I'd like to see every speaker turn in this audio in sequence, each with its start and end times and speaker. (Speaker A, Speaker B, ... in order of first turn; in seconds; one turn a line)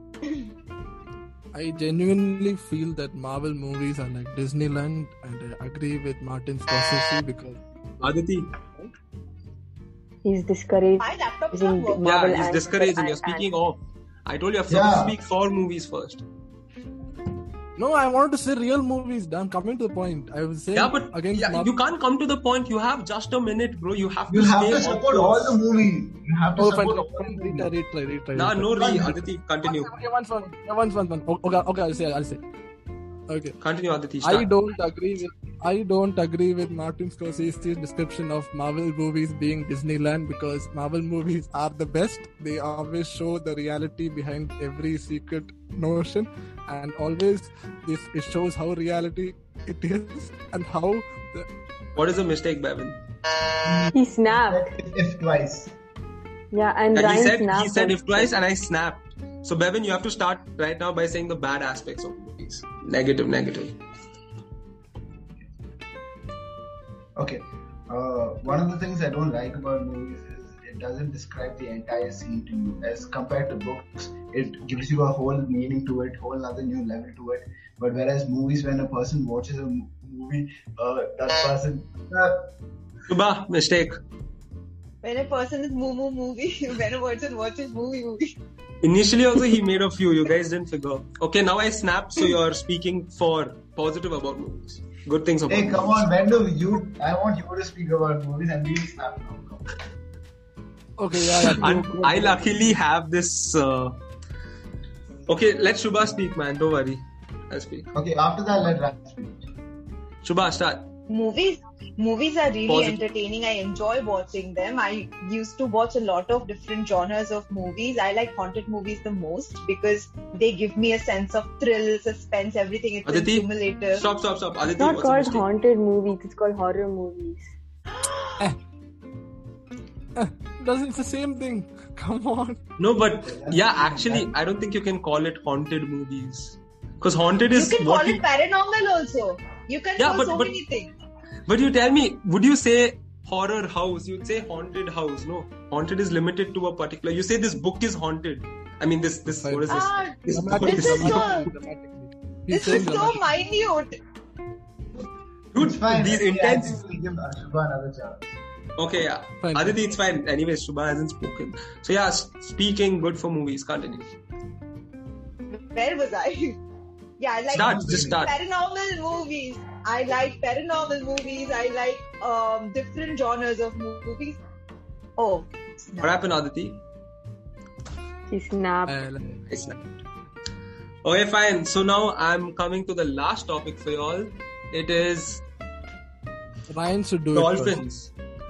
Speaker A: 1.5-8.1
Speaker B: 8.0-8.5
Speaker C: 10.2-13.5
Speaker D: 11.0-12.1
Speaker B: 12.0-16.2
Speaker E: 14.7-15.2
Speaker A: 17.8-21.7
Speaker B: 20.7-25.6
Speaker E: 24.3-27.7
Speaker A: 26.6-32.4
Speaker B: 28.4-29.9
Speaker E: 28.8-29.2
Speaker A: 33.3-33.6
Speaker B: 33.6-34.5
Speaker A: 34.2-51.5
Speaker B: 52.0-53.0
Speaker E: 53.6-55.7
Speaker C: 53.9-54.7
Speaker C: 56.5-58.3
Speaker B: 56.9-63.8
Speaker E: 67.2-82.5
Speaker B: 83.1-84.0
Speaker D: 85.0-88.3
Speaker B: 88.8-96.1
Speaker E: 95.5-99.8
Speaker A: 101.0-102.8
Speaker B: 101.2-104.0
Speaker B: 105.3-107.9
Speaker E: 107.9-109.5
Speaker B: 110.2-110.9
Speaker D: 111.1-124.0
Speaker B: 112.7-113.0
Speaker B: 123.0-125.5
Speaker C: 124.8-127.5
Speaker D: 128.0-128.3
Speaker A: 130.2-132.6
Speaker B: 132.8-138.2
Speaker E: 133.2-134.3
Speaker D: 137.6-140.9
Speaker B: 140.0-140.6
Speaker B: 141.5-151.4
Speaker A: 149.4-153.2
Speaker D: 149.7-151.5
Speaker D: 152.5-154.0
Speaker B: 155.5-156.8
Speaker E: 155.6-158.4
Speaker B: 158.8-164.1
Speaker A: 159.4-159.9
Speaker D: 165.5-166.6
Speaker D: 167.2-174.4
Speaker E: 167.5-168.2
Speaker B: 167.5-168.3
Speaker D: 175.2-176.1
Speaker B: 176.0-176.8
Speaker C: 178.3-179.0
Speaker A: 178.9-179.8
Speaker B: 179.5-179.8
Speaker B: 181.0-185.4
Speaker A: 186.7-187.8
Speaker B: 187.3-188.1